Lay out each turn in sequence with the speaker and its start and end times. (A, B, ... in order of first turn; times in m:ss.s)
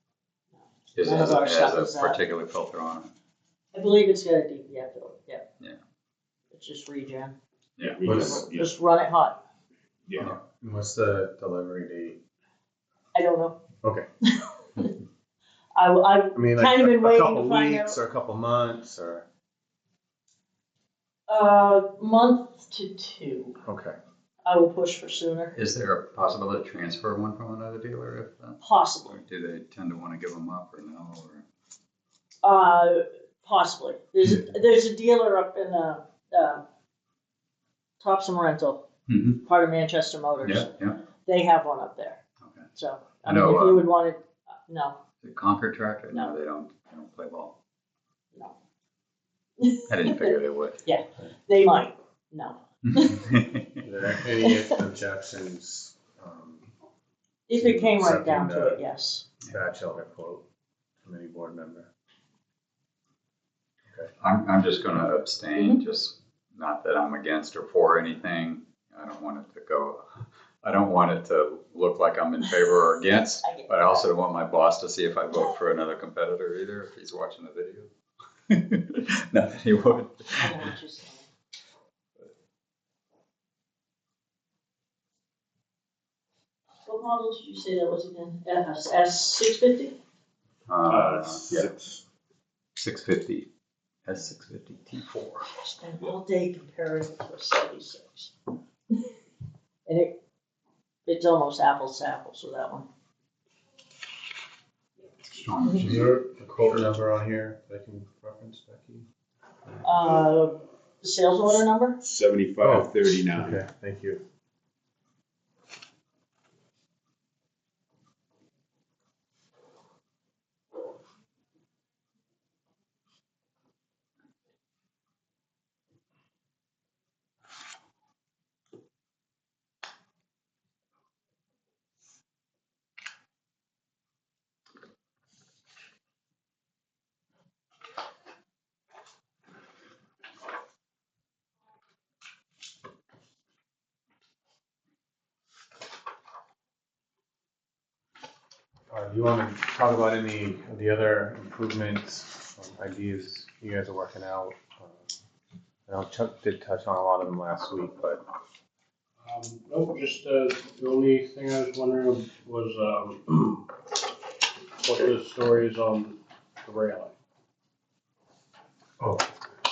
0:00.6-0:02.2 A
0:00.9-0:03.1 B
0:03.7-0:05.5 A
0:06.5-0:07.4 A
0:07.8-0:08.3 B
0:07.8-0:08.7 C
0:08.1-0:08.4 D
0:08.1-0:09.4 A
0:10.1-0:10.3 C
0:10.2-0:12.2 D
0:13.1-0:13.6 A
0:14.3-0:14.9 A
0:15.8-0:18.0 A
0:16.3-0:19.2 D
0:21.3-0:23.6 A
0:23.6-0:24.0 D
0:24.4-0:25.6 A
0:25.6-0:31.4 B
0:28.6-0:29.1 A
0:32.4-0:36.6 A
0:38.0-0:38.8 A
0:39.1-0:39.4 B
0:39.4-0:42.2 A
0:40.4-0:41.0 B
0:42.8-0:45.0 A
0:43.2-0:43.9 B
0:45.2-0:47.5 B
0:49.6-0:53.2 A
0:49.9-0:50.8 B
0:53.2-0:53.6 B
0:53.8-0:56.7 D
0:54.4-0:54.8 A
0:57.5-0:59.2 A
0:57.5-0:58.8 D
0:59.5-1:00.4 D
1:01.0-1:01.9 D
1:04.2-1:10.1 B
1:10.6-1:17.9 B
1:13.4-1:13.7 A
1:18.5-1:20.7 B
1:20.4-1:21.2 A
1:26.9-1:30.0 A
1:30.7-1:31.7 B
1:30.9-1:32.0 C
1:32.8-1:33.5 B
1:34.0-1:35.4 B
1:35.6-1:38.3 A
1:39.8-1:40.2 A
1:41.1-1:42.9 A
1:45.3-1:46.9 B
1:45.8-1:49.1 D
1:49.8-1:52.0 A
1:52.0-1:53.6 C
1:52.6-1:54.2 D
2:28.9-2:35.1 D
2:35.9-2:38.2 D
2:39.2-2:43.6 E
2:44.8-2:47.1 E
2:49.0-2:49.2 D